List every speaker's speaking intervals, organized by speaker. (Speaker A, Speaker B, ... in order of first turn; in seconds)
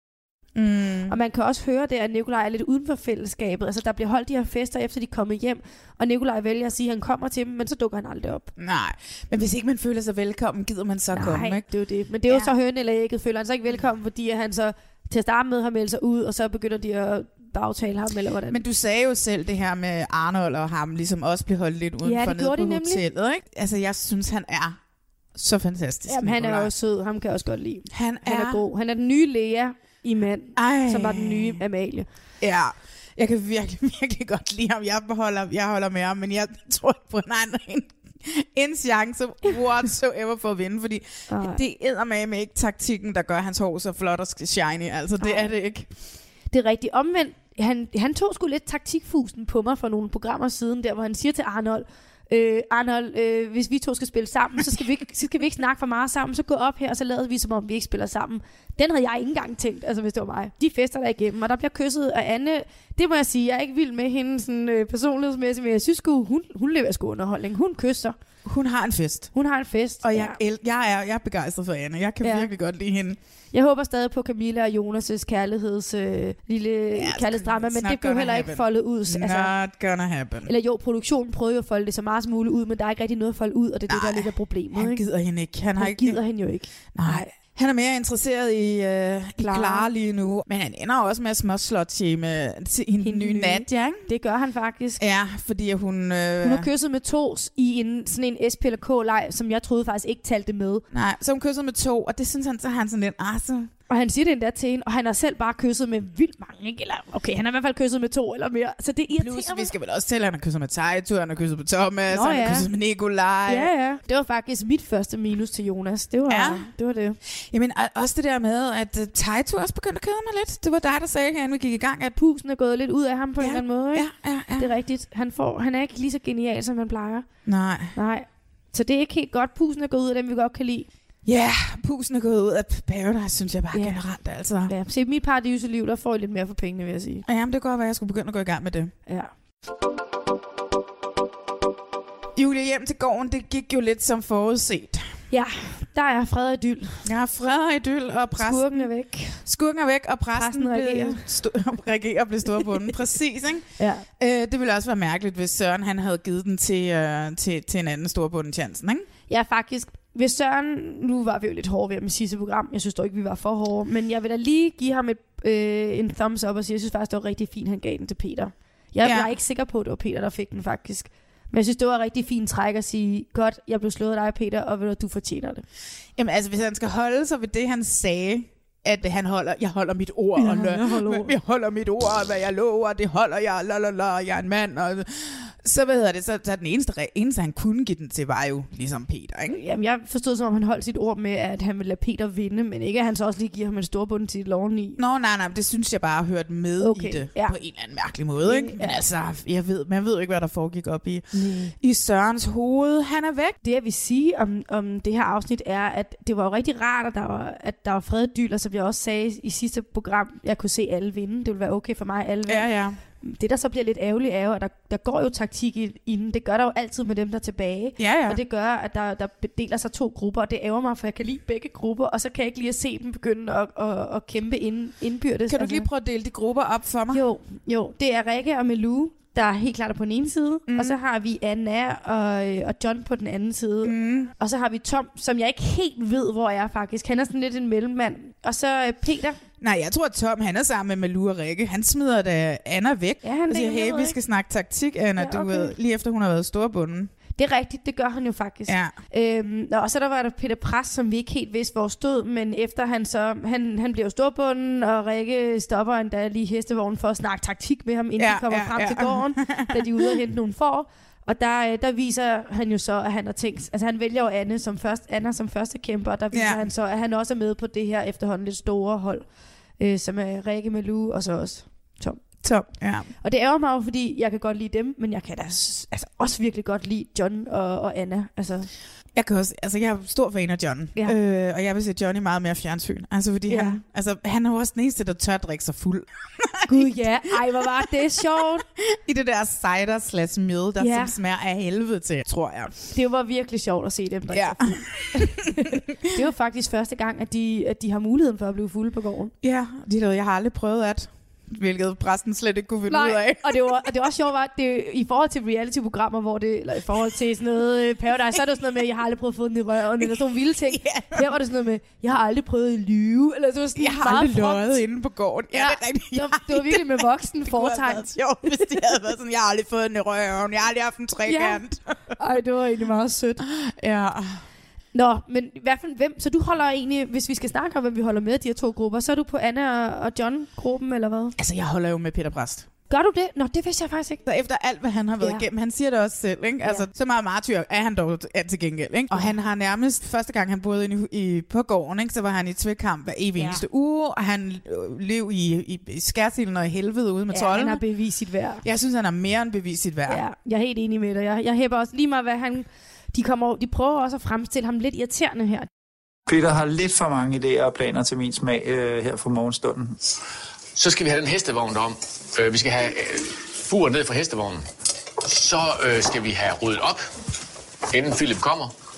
Speaker A: 0.6-1.1, 8.6-11.7, 12.3-12.5, 18.5-24.8, 25.3-26.7, 27.9-28.6, 30.6-31.6, 32.4-45.9, 68.4-69.3, 70.0-73.2, 76.9-80.5, 83.9-86.2, 86.9-94.0, 95.0-96.7, 100.9-103.7, 109.2-113.7, 116.3-116.7, 117.2-122.2, 123.4-124.7, 127.4-127.9, 131.2-134.7, 137.2-138.9, 142.3-145.1, 147.0-148.9, 149.4-159.1, 169.0-169.3, 176.2-189.6, 195.0-201.2, 201.8-203.6, 212.5-213.0, 218.0-218.4, 225.5-227.2, 230.7-231.0, 233.8-234.3, 239.6-247.1, 248.7-248.9, 258.2-260.1, 266.3-266.6, 272.4-273.1, 279.1-287.0, 288.8-292.8, 294.3-295.3, 299.4-303.8, 310.0-311.3, 313.8-322.0, 323.4-324.4, 331.4-332.7, 334.2-347.8, 348.6-350.2
Speaker B: 1.1-8.5, 11.1-18.6, 22.0-23.0, 26.1-32.1, 41.3-41.6, 45.2-45.5, 46.5-68.2, 69.3-70.4, 72.2-72.5, 73.5-79.5, 80.5-85.0, 85.8-87.3, 89.4-89.9, 93.0-95.0, 96.4-100.8, 103.9-109.7, 112.1-112.7, 113.5-117.2, 122.2-127.3, 127.9-130.9, 133.7-134.0, 134.7-137.2, 145.3-147.0, 148.3-149.4, 150.3-151.2, 153.8-154.1, 159.3-175.6, 180.4-181.3, 189.5-195.0, 196.8-197.6, 198.4-199.0, 201.3-201.7, 203.6-225.9, 227.1-239.4, 243.2-244.2, 245.2-245.7, 247.3-269.2, 269.8-272.4, 273.2-278.7, 283.5-283.8, 286.7-288.6, 290.8-291.1, 292.9-299.3, 302.9-314.8, 315.5-318.8, 321.2-321.6, 322.1-323.4, 324.9-331.3, 332.9-334.2, 335.2-335.4, 339.1-339.4, 343.4-343.6, 347.3-348.6, 350.1-355.7
Speaker C: 356.3-360.0
Speaker D: 360.8-364.6, 365.2-367.0, 367.9-368.7